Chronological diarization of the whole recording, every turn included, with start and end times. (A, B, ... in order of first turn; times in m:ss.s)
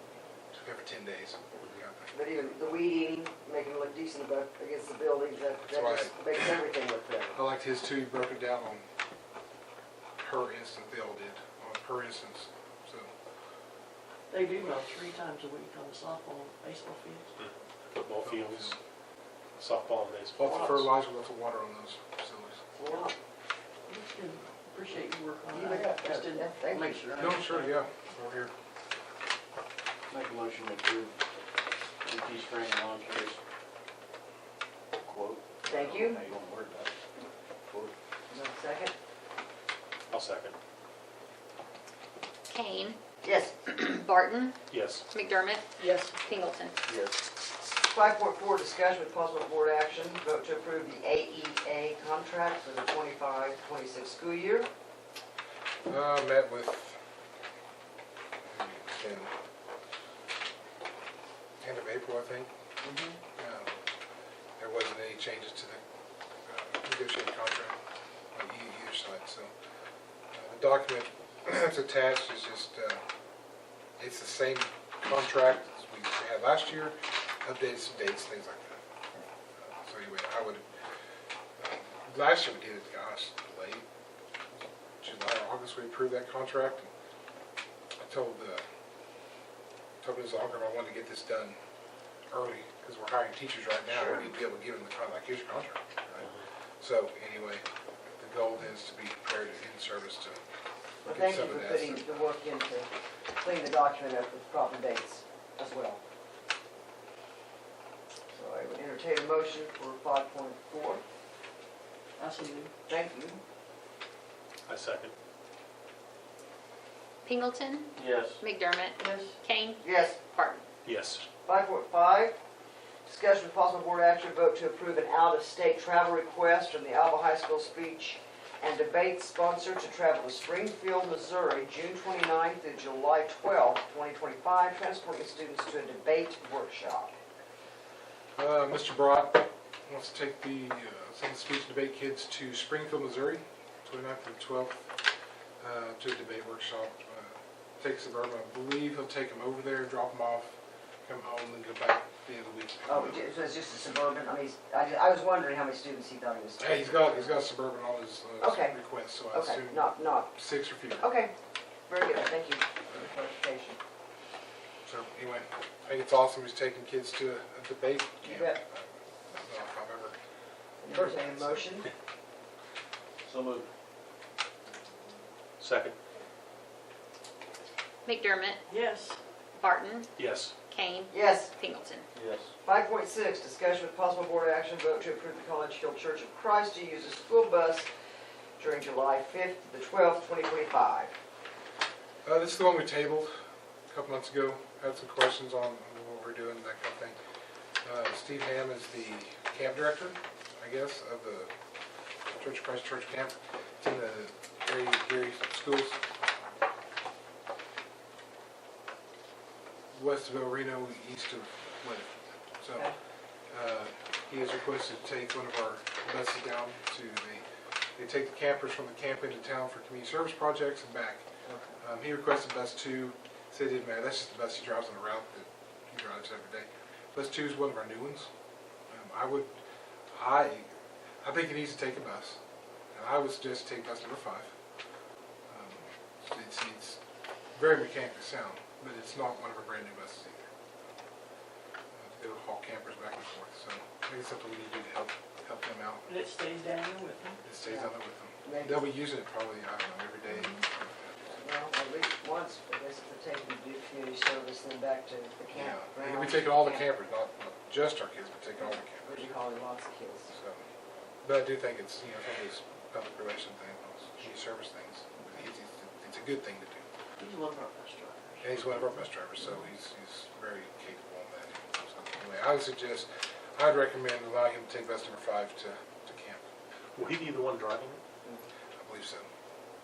0:00.6-0:02.2 A
0:01.6-0:07.4 B
0:05.7-0:06.2 A
0:07.4-0:08.8 A
0:10.2-0:13.1 A
0:14.3-0:17.3 C
0:17.4-0:18.8 D
0:18.2-0:18.8 A
0:19.6-0:20.9 D
0:20.4-0:22.6 A
0:22.8-0:23.1 B
0:23.9-0:27.8 C
0:25.5-0:27.0 B
0:27.2-0:28.5 A
0:30.1-0:31.2 E
0:32.0-0:33.4 E
0:35.0-0:36.9 E
0:35.7-0:36.2 B
0:37.7-0:37.9 E
0:38.3-0:38.9 B
0:40.1-0:40.6 D
0:42.5-0:43.0 F
0:43.2-0:43.6 B
0:43.7-0:44.6 F
0:44.7-0:45.0 D
0:45.1-0:46.8 F
0:45.8-0:46.1 C
0:46.9-0:47.2 E
0:47.6-0:54.7 B
0:55.9-0:57.0 A
0:58.5-0:59.3 A
1:01.6-1:02.5 A
1:03.3-1:03.7 A
1:04.6-1:05.8 A
1:06.5-1:07.8 A
1:08.3-1:09.5 A
1:10.3-1:13.0 A
1:14.0-1:18.8 A
1:19.6-1:20.6 A
1:21.6-1:23.8 A
1:25.0-1:26.9 A
1:28.0-1:28.6 A
1:30.0-1:31.6 A
1:32.3-1:37.6 A
1:33.9-1:34.3 B
1:38.2-1:40.4 A
1:41.0-1:46.0 B
1:41.0-1:42.3 A
1:48.3-1:51.0 B
1:52.2-1:52.7 C
1:52.9-1:53.4 B
1:54.7-1:55.1 D
1:57.2-2:00.6 F
1:58.0-1:58.4 E
1:59.0-1:59.3 C
1:59.8-2:00.2 B
2:00.8-2:01.2 D
2:01.4-2:02.4 B
2:03.1-2:17.1 B
2:18.4-2:25.0 A
2:25.6-2:30.5 A
2:31.0-2:33.2 A
2:32.8-2:37.4 B
2:36.6-2:41.1 A
2:38.4-2:38.8 B
2:39.3-2:40.3 B
2:41.0-2:41.3 B
2:41.9-2:43.8 B
2:44.8-2:50.2 A
2:48.2-2:48.6 B
2:50.8-2:51.9 B
2:50.9-2:51.6 A
2:53.2-2:53.7 E
2:55.6-2:55.9 D
2:58.0-2:58.6 F
2:58.7-2:59.2 C
2:59.5-3:00.1 F
3:00.2-3:00.5 D
3:00.7-3:02.0 F
3:01.1-3:01.5 B
3:02.1-3:02.5 E
3:02.6-3:07.9 B
3:08.6-3:11.1 B
3:12.2-3:13.3 A
3:13.9-3:17.2 A
3:17.8-3:21.5 A
3:22.4-3:26.0 A
3:29.9-3:32.9 A
3:33.5-3:41.2 A
3:41.5-3:41.7 B
3:41.8-3:48.3 A
3:48.9-3:50.7 A
3:51.2-3:52.4 A
3:52.9-3:54.5 A
3:55.5-3:57.0 A
3:57.5-4:00.5 A
4:01.9-4:06.1 A
4:06.0-4:07.4 C
4:07.4-4:11.0 A
4:08.4-4:08.8 B
4:11.2-4:16.8 B
4:15.5-4:19.3 A
4:19.1-4:20.3 B
4:20.3-4:20.7 A
4:21.2-4:26.8 A
4:27.2-4:28.6 C
4:28.4-4:36.4 A
4:37.0-4:38.0 D
4:38.8-4:39.3 A